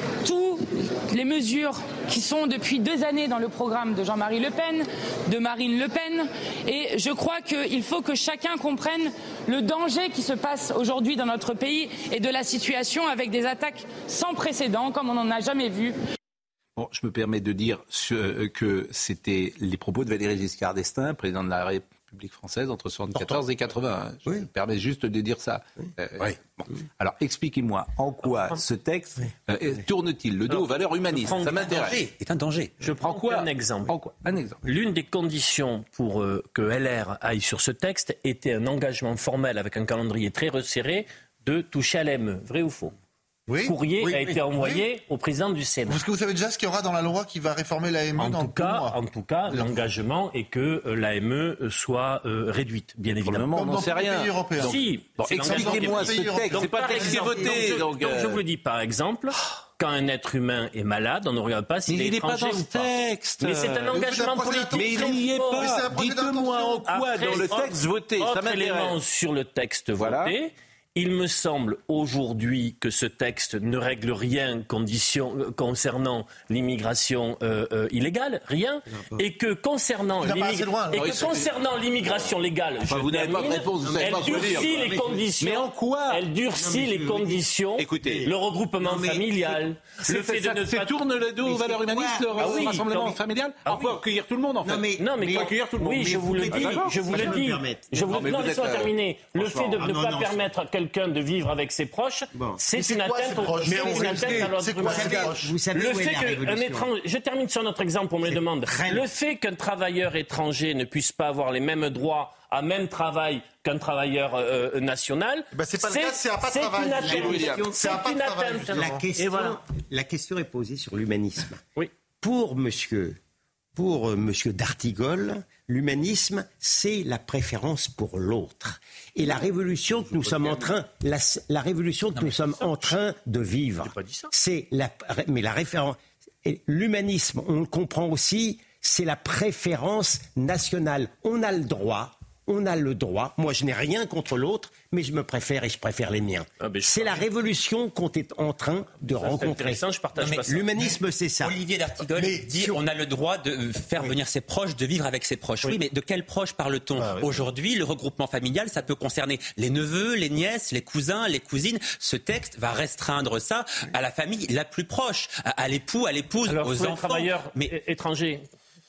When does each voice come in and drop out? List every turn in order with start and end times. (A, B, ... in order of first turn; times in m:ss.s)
0:00.2-0:16.0 A
0:16.8-0:32.0 B
0:28.3-0:28.6 C
0:31.2-0:31.9 C
0:31.6-0:32.7 D
0:32.8-0:33.9 C
0:32.8-0:34.6 B
0:34.6-0:42.9 C
0:43.5-0:43.8 E
0:43.6-0:46.0 C
0:44.0-0:44.3 F
0:45.9-0:48.9 E
0:48.2-0:53.5 C
0:53.2-0:58.4 B
0:53.5-0:54.8 E
0:54.6-1:05.7 C
0:55.4-0:57.4 E
1:01.9-1:04.0 B
1:03.9-1:07.5 E
1:04.8-1:09.0 B
1:06.9-1:31.0 C
1:10.0-1:10.3 B
1:18.9-1:19.2 F
1:20.2-1:21.5 E
1:21.0-1:21.5 B
1:22.9-1:26.2 B
1:23.7-1:25.2 F
1:26.6-1:27.4 F
1:27.8-1:28.3 B
1:28.0-1:29.5 F
1:30.0-1:39.9 B
1:31.4-1:32.7 F
1:32.4-1:33.2 C
1:34.6-1:37.8 F
1:35.0-1:59.6 C
1:39.8-1:40.4 F
1:42.3-1:42.6 F
1:42.7-1:45.5 E
1:43.6-1:46.9 F
1:48.3-1:49.1 F
1:55.5-1:59.0 E
1:56.9-1:57.8 F
1:57.1-1:57.6 B
1:58.7-2:01.6 F
2:02.2-2:03.2 F
2:03.8-2:29.8 F
2:13.8-2:14.3 C
2:26.6-2:27.3 C
2:29.1-2:30.7 C
2:30.2-2:47.7 D
2:30.4-2:31.6 F
2:32.1-2:32.8 F
2:37.0-2:37.4 E
2:46.5-2:48.4 C